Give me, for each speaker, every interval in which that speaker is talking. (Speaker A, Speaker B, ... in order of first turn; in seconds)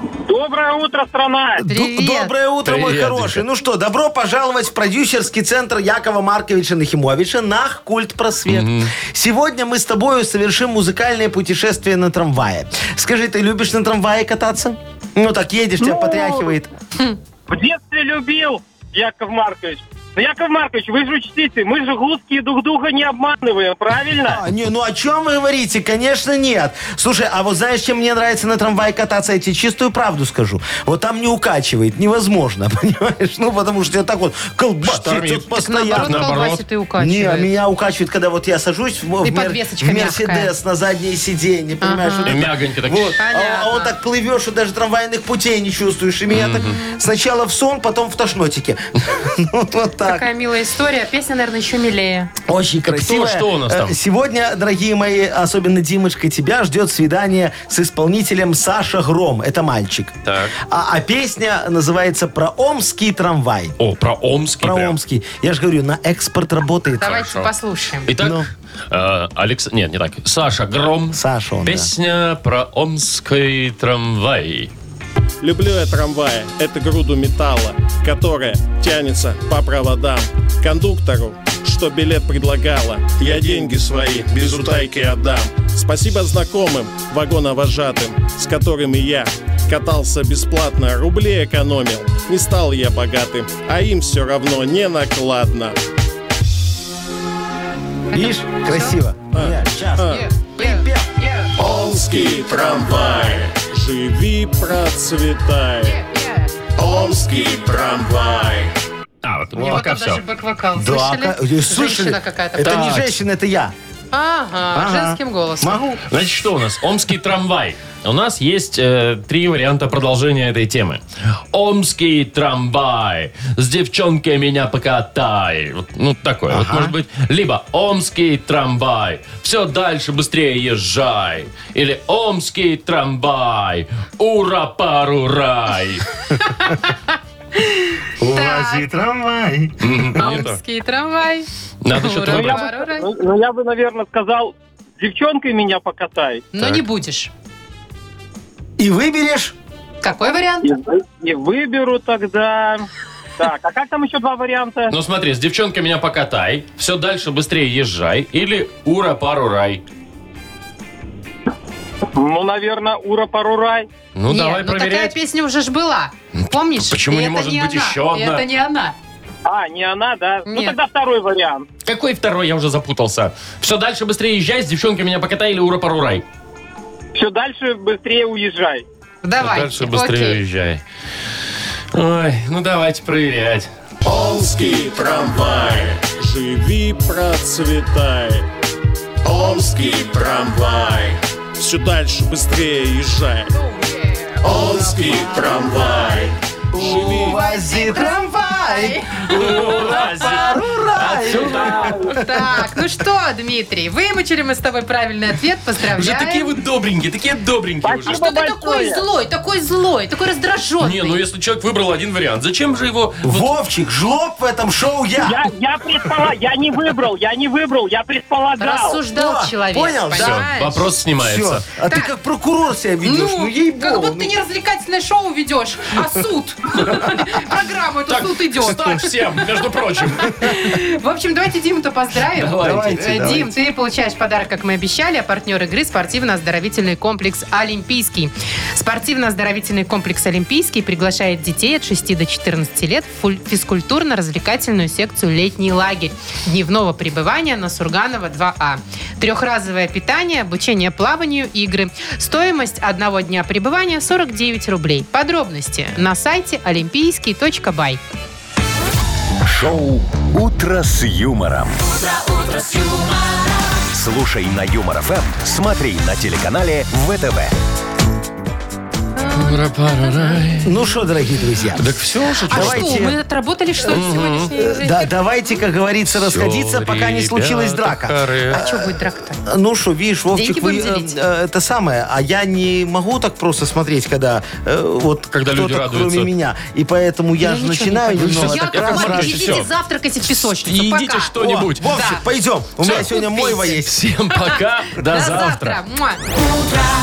Speaker A: 0.3-1.6, 15.8-16.5, 17.5-24.4, 142.3-146.5, 150.6-152.9, 153.4-154.9, 162.2-163.9, 169.4-171.7, 177.2-178.8, 207.8-209.0, 215.2-219.0
Speaker B: 1.6-16.7, 24.2-50.3, 52.5-63.8, 64.6-67.2, 68.2-68.5, 71.1-71.9, 98.1-101.1, 110.8-113.7, 114.7-116.0, 126.5-127.0, 138.2-140.4, 148.8-149.6, 195.0-195.8, 196.7-202.6, 213.2-215.5, 219.1-220.5, 221.2-224.3, 232.6-233.5, 270.6-271.9, 272.5-273.1, 274.0-289.7, 291.4-294.0
Speaker C: 1.6-2.3, 35.5-37.5, 39.2-40.5, 41.8-42.4, 43.2-43.9, 46.7-47.0, 50.0-52.3, 67.0-68.1, 98.1-99.0, 100.0-101.5, 105.9-106.5, 109.5-113.1, 114.1-115.8, 136.4-137.0, 137.7-138.9, 140.2-143.1, 146.5-147.3, 150.0-150.7, 164.3-168.9, 170.5-170.8, 179.2-180.4, 197.1-199.9, 201.6-206.5, 208.1-211.2, 218.6-220.8, 221.9-222.1, 223.0-229.5, 230.2-258.0, 269.2-270.7, 272.5-275.1, 278.5-279.4, 280.3-281.2, 287.4-291.3, 291.9-292.2, 292.9-293.8, 294.3-296.2
Speaker D: 2.6-3.4, 8.5-8.9, 34.8-36.6, 42.3-43.2, 46.3-46.8, 52.9-54.0, 60.3-60.5, 63.8-65.0, 67.0-67.5, 68.1-74.7, 109.2-110.2, 116.1-121.0, 121.5-136.1, 139.8-140.6, 141.8-142.6, 146.6-146.8, 154.9-159.8, 164.2-165.2, 166.4-168.4, 171.9-176.2, 179.4-180.8, 181.9-183.7, 199.3-202.0, 205.9-208.2, 210.8-213.5, 220.2-221.7, 228.1-230.7, 232.3-233.3, 269.4-270.7, 271.8-273.1, 273.9-274.5, 276.1-278.6, 285.3-286.3, 288.2-289.7, 290.4-291.9, 292.8-293.2, 293.8-295.8
Speaker E: 75.4-95.8, 99.3-100.2, 101.6-106.0, 106.8-108.7, 184.0-188.5, 189.2-193.5, 194.4-197.4
Speaker F: 259.4-262.0, 263.9-267.5